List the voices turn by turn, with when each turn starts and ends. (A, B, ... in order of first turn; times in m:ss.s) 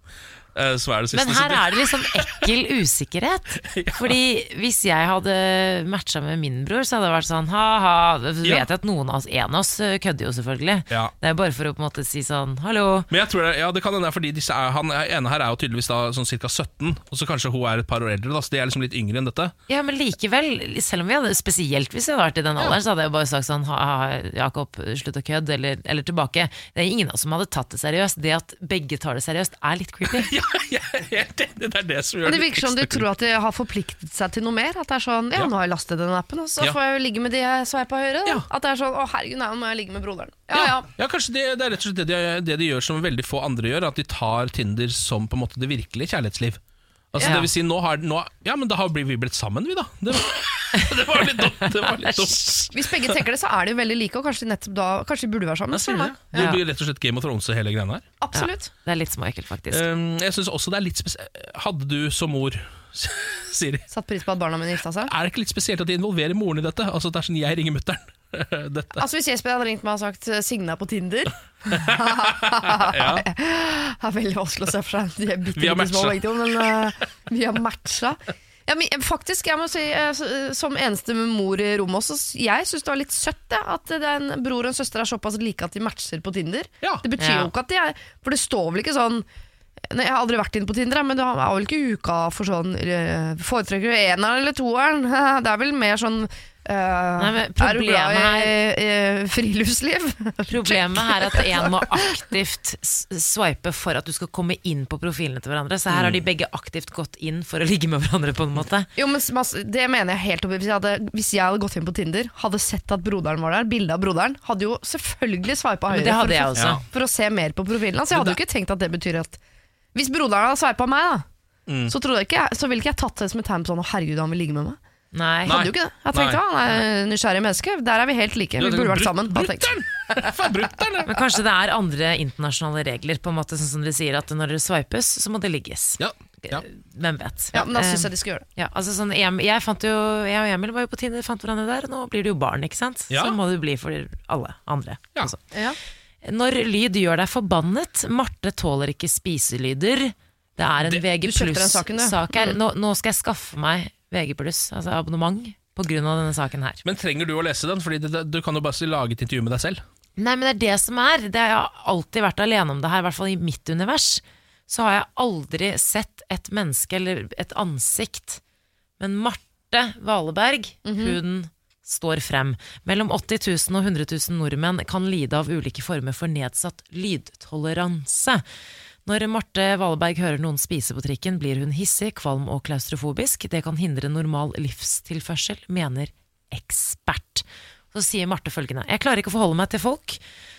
0:00.6-0:02.4 A
0:01.1-0:13.1 B
0:03.7-0:04.2 A
0:13.1-0:19.5 A
0:19.7-0:30.3 B
0:30.2-0:33.1 A
0:32.2-0:40.9 C
0:40.5-0:46.6 A
0:47.1-0:52.8 A
0:47.2-0:47.5 B
0:52.0-0:52.3 B
0:52.7-0:56.6 C
0:55.7-0:58.0 A
0:58.2-0:58.7 C
0:58.3-0:59.9 B
0:59.7-1:03.9 A
1:03.9-1:05.1 C
1:05.1-1:09.0 A
1:09.0-1:29.2 C
1:11.8-1:13.2 A
1:15.6-1:16.7 A
1:27.2-1:27.5 B
1:29.9-1:41.8 C
1:37.2-1:38.6 B
1:40.5-1:48.9 B
1:45.9-1:46.2 A
1:49.0-1:59.4 C
1:55.9-1:56.8 B
1:56.6-1:56.8 A
1:58.1-1:58.4 A
1:59.9-2:01.2 C
2:01.7-2:01.9 A
2:01.9-2:04.8 C
2:05.1-2:05.6 B
2:05.5-2:06.4 A
2:05.5-2:09.7 C
2:08.6-2:11.2 A
2:11.1-2:25.4 B
2:16.0-2:16.6 A
2:17.5-2:18.4 C
2:23.1-2:23.4 A
2:26.2-2:36.8 B
2:31.2-2:32.6 C
2:36.8-2:39.8 A
2:40.2-2:48.4 B
2:49.0-2:58.4 B
2:50.9-2:51.2 C
2:59.1-3:10.2 B